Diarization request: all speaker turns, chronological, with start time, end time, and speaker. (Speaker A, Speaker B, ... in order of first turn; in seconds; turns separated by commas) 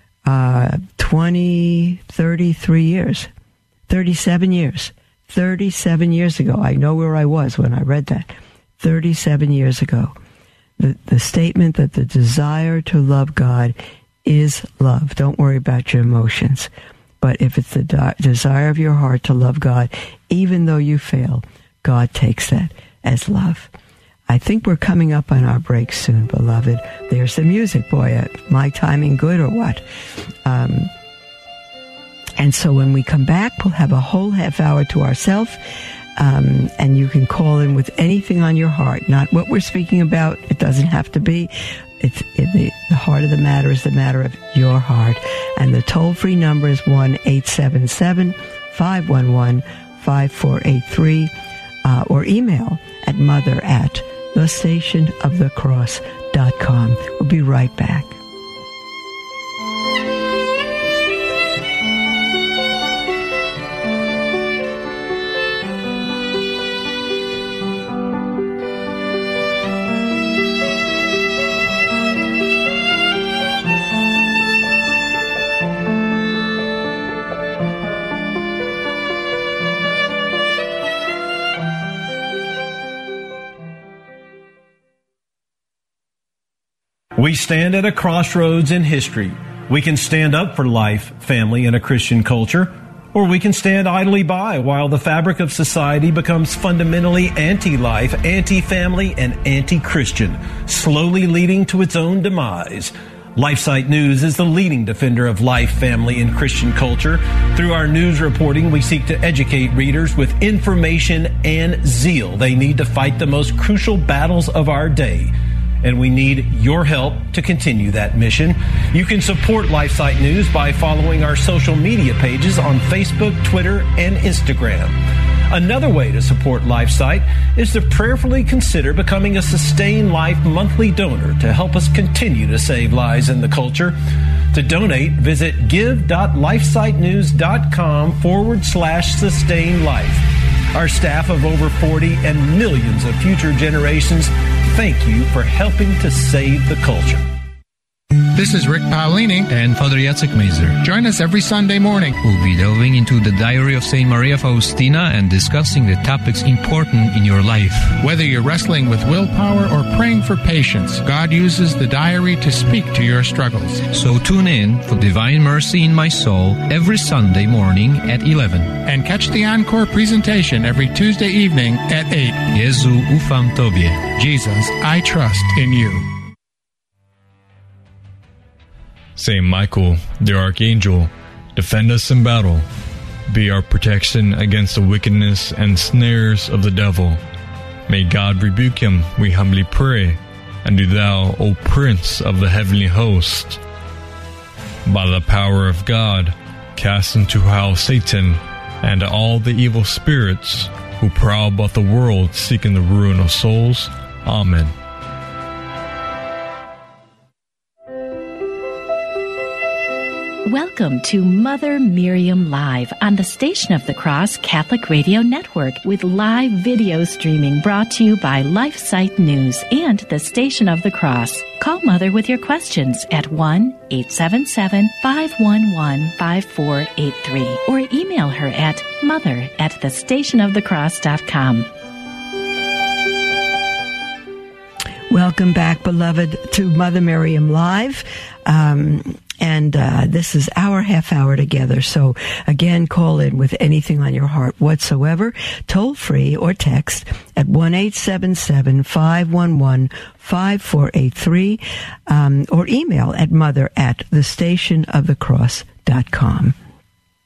Speaker A: 0.2-3.3, Speaker A: 3.9-10.2, Speaker A: 10.8-23.7, Speaker A: 24.3-29.9, Speaker A: 30.4-30.9, Speaker A: 32.4-51.3, Speaker A: 51.8-58.2, Speaker B: 87.2-134.0, Speaker B: 134.5-147.3, Speaker C: 148.3-149.5, Speaker D: 149.5-150.8, Speaker C: 150.8-152.2, Speaker D: 152.2-158.0, Speaker C: 158.0-163.9, Speaker D: 163.9-168.8, Speaker C: 168.8-172.5, Speaker D: 172.4-174.1, Speaker C: 174.1-176.1, Speaker E: 179.2-182.7, Speaker E: 183.3-187.2, Speaker E: 187.9-193.6, Speaker E: 194.8-204.7, Speaker F: 210.4-231.7, Speaker A: 235.1-256.6